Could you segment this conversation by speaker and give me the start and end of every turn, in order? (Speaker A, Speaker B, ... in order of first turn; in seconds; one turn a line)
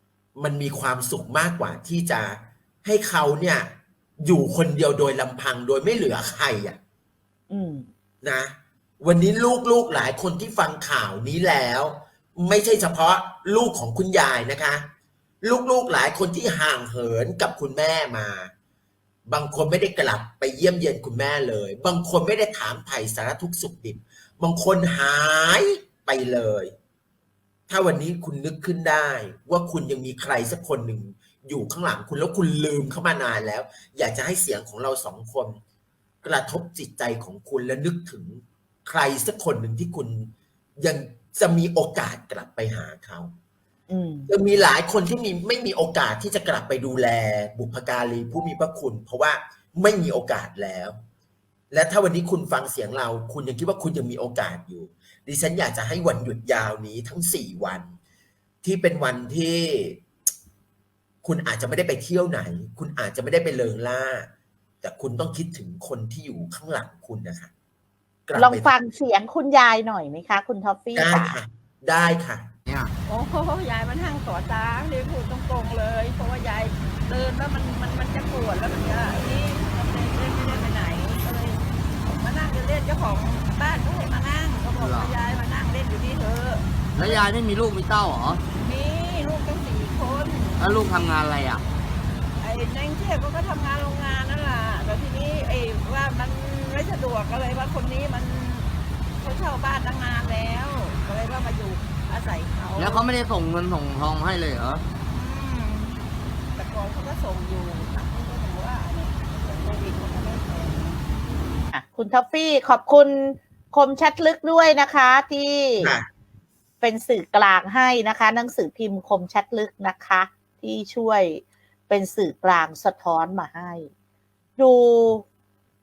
Speaker A: 0.3-6.8
Speaker B: 7.5-7.9
Speaker A: 8.2-14.9
Speaker A: 15.4-18.5
Speaker A: 19.3-26.7
Speaker A: 27.7-35.6
Speaker A: 36.2-43.3
Speaker B: 43.9-44.3
Speaker A: 44.3-51.0
Speaker A: 51.7-57.9
Speaker A: 58.6-60.0
Speaker A: 61.2-64.3
Speaker A: 64.8-67.5
Speaker A: 68.2-68.7
Speaker B: 68.3-71.4
Speaker A: 70.9-72.5
Speaker C: 72.7-72.9
Speaker D: 73.0-87.2
Speaker C: 84.8-85.1
Speaker C: 86.9-88.4
Speaker D: 88.5-90.6
Speaker C: 90.6-91.6
Speaker D: 92.4-103.0
Speaker C: 102.8-104.8
Speaker D: 105.0-111.0
Speaker B: 111.7-115.9
Speaker A: 115.8-116.1
Speaker B: 116.8-123.9
Speaker B: 124.6-125.2